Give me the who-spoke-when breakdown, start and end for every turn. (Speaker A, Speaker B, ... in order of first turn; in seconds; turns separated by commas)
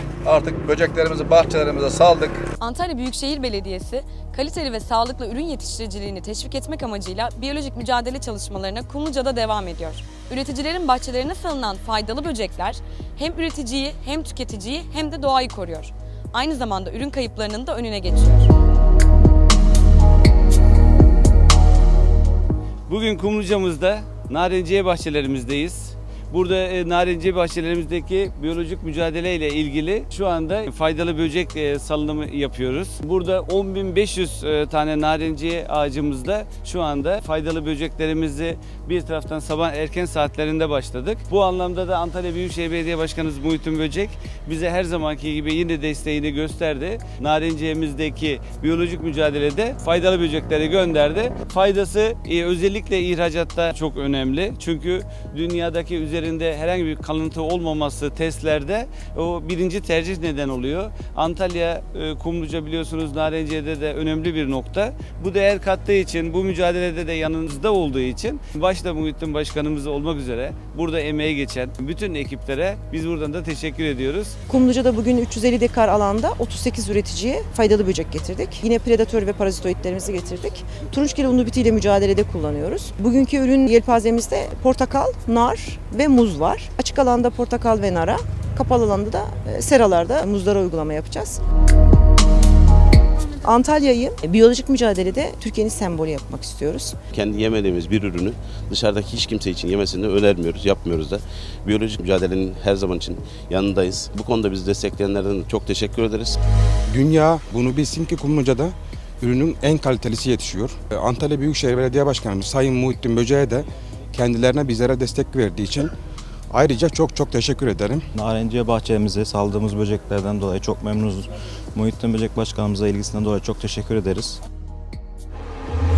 Speaker A: 0.2-2.4, Speaker B: 2.6-18.5, Speaker C: 22.9-74.4, Speaker D: 74.5-91.4, Speaker D: 93.3-97.0, Speaker E: 97.1-106.4, Speaker F: 106.9-115.9, Speaker F: 116.5-118.0, Speaker G: 118.2-124.4